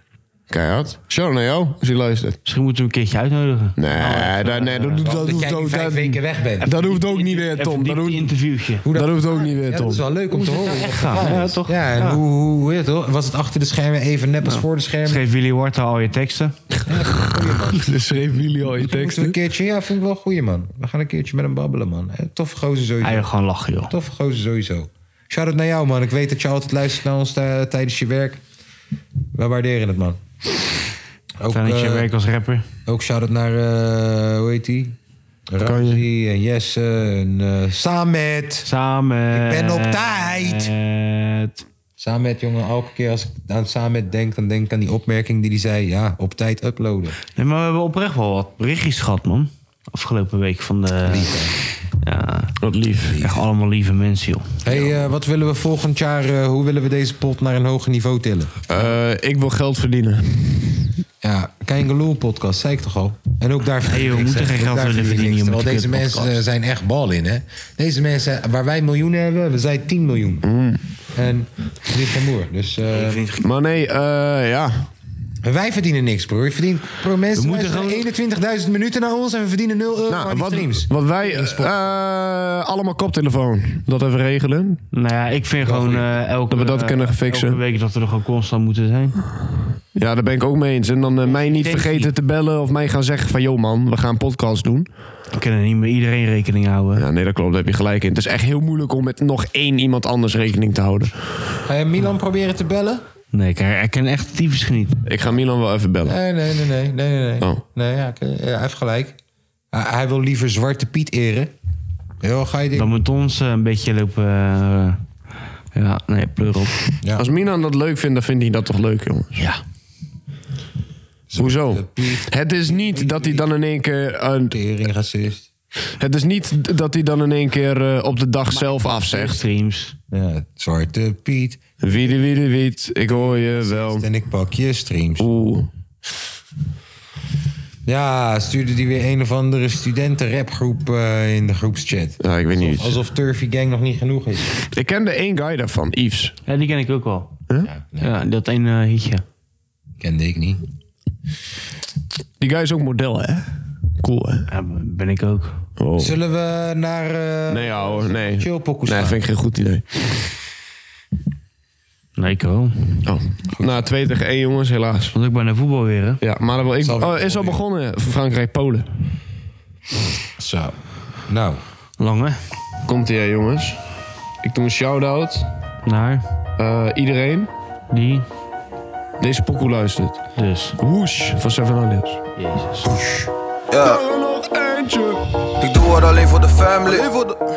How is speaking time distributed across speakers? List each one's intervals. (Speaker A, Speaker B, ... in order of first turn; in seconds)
Speaker A: 0.5-2.4, 3.8-8.3, 8.9-11.4, 17.7-19.4, 35.6-36.0, 52.6-53.2, 58.7-60.8, 70.4-70.8, 73.4-74.9, 80.1-84.8, 86.5-87.6, 89.9-94.9, 97.0-101.5, 105.0-106.2, 117.2-119.4, 121.4-124.6, 126.0-129.4, 131.8-134.1, 135.2-135.7, 142.2-143.0, 144.7-146.3, 152.4-153.5, 154.0-154.5, 155.8-156.2, 157.5-160.2, 163.0-165.1, 166.2-168.9, 172.8-173.8, 174.4-175.5, 176.6-177.5, 179.2-180.2, 180.8-182.2, 183.8-185.2
Speaker B: 2.5-5.1, 6.7-8.8, 10.4-12.2, 14.4-16.6, 23.0-23.9, 31.5-32.7, 38.6-41.6, 47.3-51.4, 52.0-52.5, 53.2-54.9, 63.8-66.4, 72.9-73.4, 77.3-78.0, 84.9-89.2, 91.2-92.1, 95.3-97.0, 103.3-105.0, 112.7-115.0, 115.7-116.8, 128.5-129.9, 146.5-147.3, 148.0-149.2, 154.5-155.6, 162.2-163.0, 165.1-166.2, 172.0-172.4, 175.8-176.2, 177.9-178.2, 180.4-180.8, 182.4-182.9
Speaker C: 5.0-6.7, 8.8-15.2, 16.8-18.0, 18.7-23.3, 23.9-28.4, 29.3-30.2, 31.4-32.1, 32.9-35.0, 35.5-38.7, 39.3-40.7, 42.0-47.2, 51.0-51.5, 53.1-53.4, 54.6-58.5, 61.2-70.5, 71.1-73.2, 75.4-81.9, 85.6-86.1, 101.6-103.0, 106.0-109.2, 109.7-111.5, 112.2-112.9, 117.0-117.3, 121.3-123.5, 124.5-125.5, 130.1-131.6, 133.1-135.3, 137.8-144.5, 147.6-148.1, 150.0-150.6, 156.0-159.2, 163.5-163.9, 166.8-167.6, 170.4-171.6, 182.9-183.3
Speaker D: 183.7-184.0, 185.6-187.4